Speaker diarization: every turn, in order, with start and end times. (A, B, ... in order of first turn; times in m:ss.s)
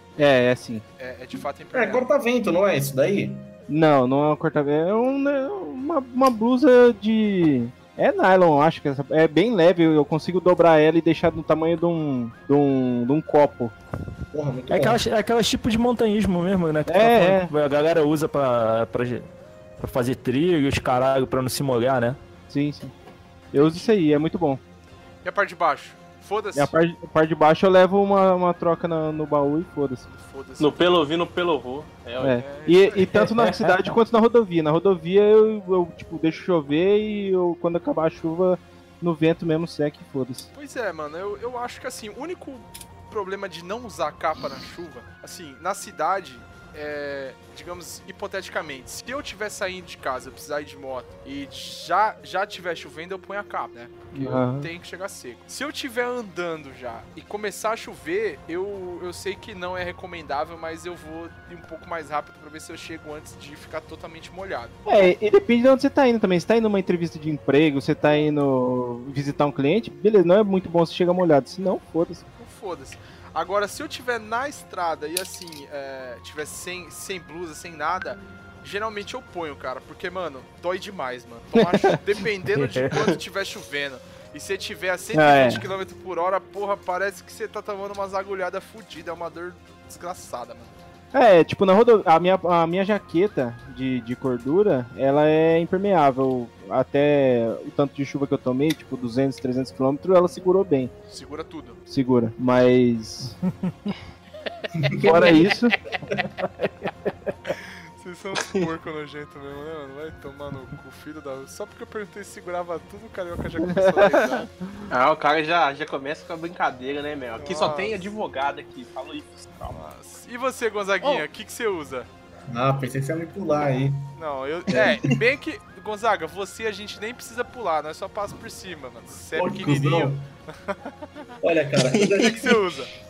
0:00.2-0:00.8 A
0:01.0-0:02.1 B
0:01.7-0:03.5 C
0:03.7-0:13.7 A
0:14.3-0:15.0 C
0:14.7-0:19.2 D
0:16.9-0:17.5 A
0:19.8-0:22.2 D
0:22.5-0:22.9 A
0:23.5-0:24.6 A
0:23.5-0:23.9 B
0:25.2-0:26.8 B
0:26.5-0:30.1 A
0:30.1-0:30.9 B
0:30.6-0:32.4 E
0:32.2-0:40.5 A
0:32.4-0:33.2 B
0:33.4-0:34.0 D
0:40.5-1:04.7 B
0:54.1-0:54.7 A
1:04.8-1:12.2 A
1:12.4-1:30.7 B
1:22.5-1:23.0 D
1:25.1-1:25.7 A
1:31.1-1:40.9 A
1:41.1-1:41.8 B
1:41.9-1:43.4 A
1:44.7-1:45.3 C
1:45.0-1:45.8 A
1:46.4-1:47.3 D
1:47.5-1:54.5 B
1:53.6-1:54.4 A
1:54.9-1:59.8 E
1:57.4-1:58.1 B
1:59.7-2:02.1 B
2:02.5-2:04.0 C
2:04.2-2:10.1 B
2:04.7-2:05.1 C
2:09.3-2:10.2 C
2:11.4-2:12.6 C
2:11.8-2:12.4 E
2:12.2-2:12.9 B